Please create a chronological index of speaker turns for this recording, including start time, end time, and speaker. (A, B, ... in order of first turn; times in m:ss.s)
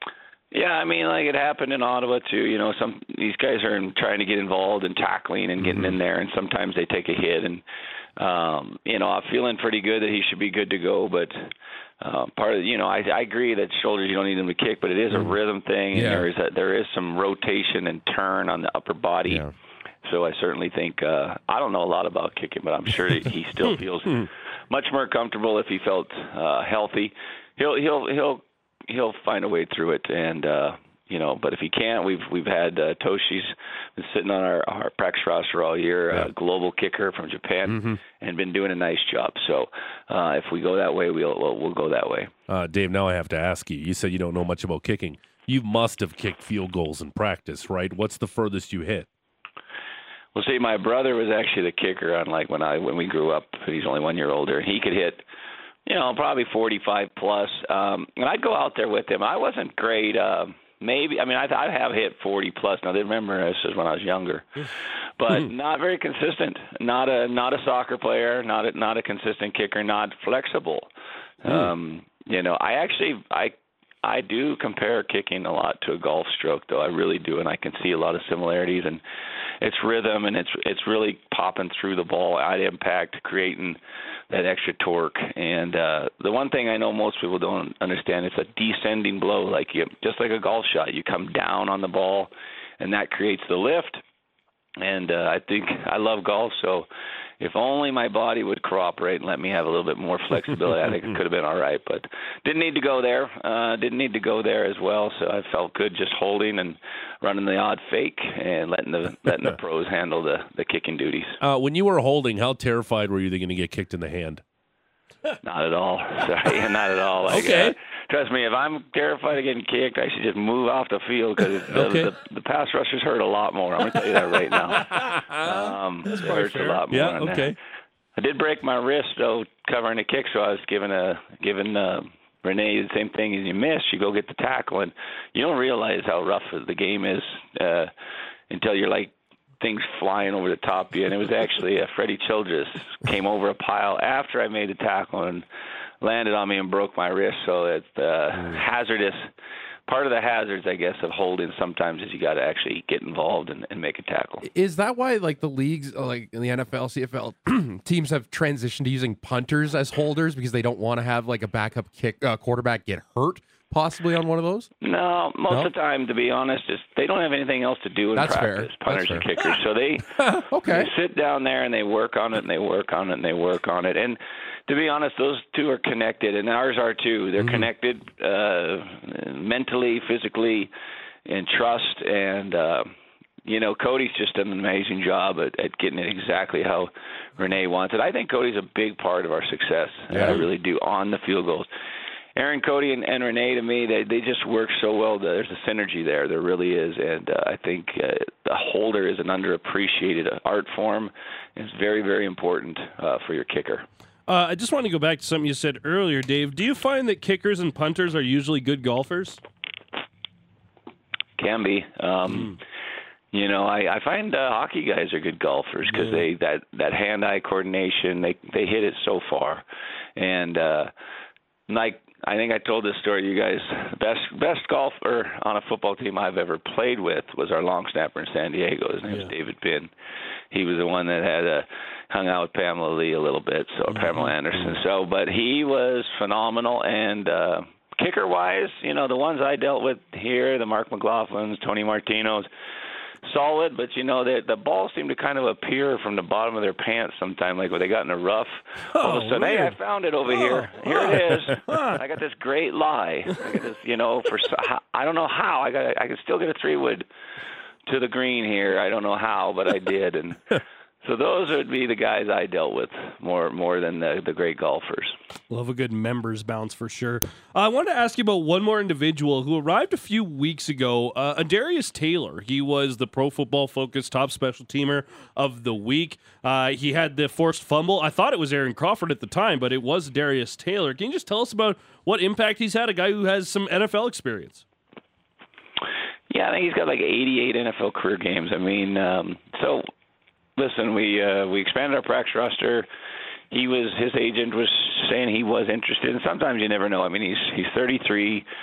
0:00.5-0:07.6 A
0:08.2-0:19.4 A
0:15.9-0:16.3 B
0:20.0-0:42.3 A
0:37.7-0:38.0 B
0:42.5-0:49.1 C
0:50.3-0:55.2 A
0:55.8-1:10.9 A
1:11.4-1:19.0 A
1:19.6-1:23.8 A
1:24.3-1:34.0 A
1:34.8-1:36.9 A
1:37.4-1:51.4 A
1:51.4-1:54.4 C
1:55.4-2:07.6 A
1:57.3-1:57.8 C
2:01.7-2:02.1 C
2:04.8-2:07.6 C
2:08.2-2:17.9 A
2:18.5-2:25.4 A
2:26.0-2:29.3 A
2:29.9-2:34.4 A
2:34.4-2:44.7 B
2:44.8-3:00.7 A
2:48.1-2:49.3 B
2:50.2-2:50.9 B
3:01.2-3:02.9 A
3:03.4-3:11.7 A
3:10.1-3:10.4 B
3:12.4-3:23.8 A
3:24.3-3:29.4 D
3:31.4-3:32.6 A
3:33.3-3:39.6 A
3:35.9-3:36.2 D
3:40.2-3:40.9 A
3:41.7-3:49.9 A
3:50.5-4:02.5 A
3:53.9-3:54.3 D
4:03.2-4:17.0 A
4:08.9-4:09.7 D
4:10.4-4:10.7 D
4:11.7-4:12.0 D
4:17.8-4:25.2 A
4:25.5-4:44.6 D
4:46.3-4:49.9 A
4:50.6-4:52.9 A
4:53.5-4:58.4 A